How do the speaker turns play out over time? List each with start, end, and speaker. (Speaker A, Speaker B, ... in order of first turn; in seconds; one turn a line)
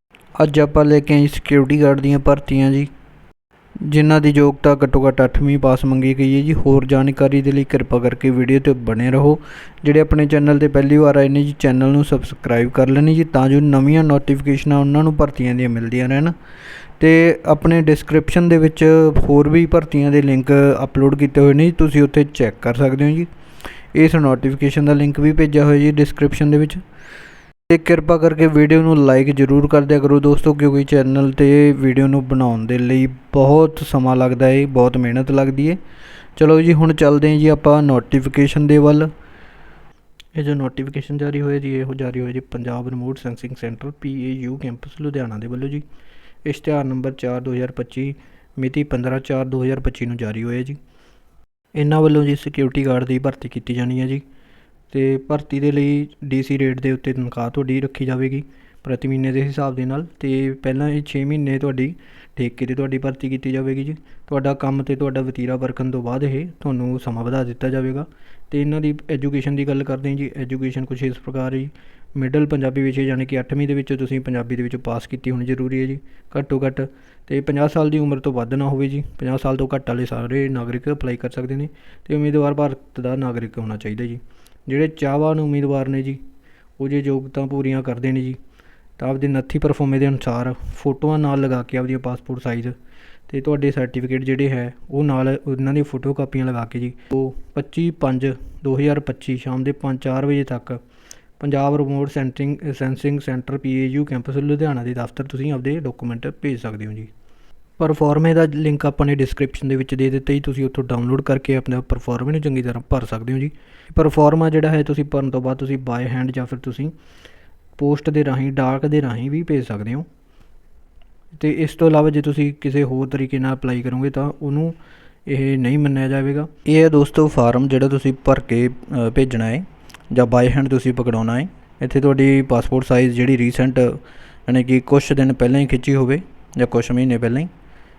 Speaker A: 0.4-2.9
Speaker A: 3.9-16.3
Speaker A: 17.0-23.3
Speaker A: 23.9-26.8
Speaker A: 27.7-35.8
Speaker A: 36.4-39.1
Speaker A: 40.4-45.8
Speaker A: 46.5-50.8
Speaker A: 51.7-54.2
Speaker A: 54.9-86.2
Speaker A: 86.8-88.4
Speaker A: 89.0-92.7
Speaker A: 93.3-100.8
Speaker A: 101.4-107.1
Speaker A: 107.8-116.9
Speaker A: 117.8-120.1
Speaker A: 121.3-137.5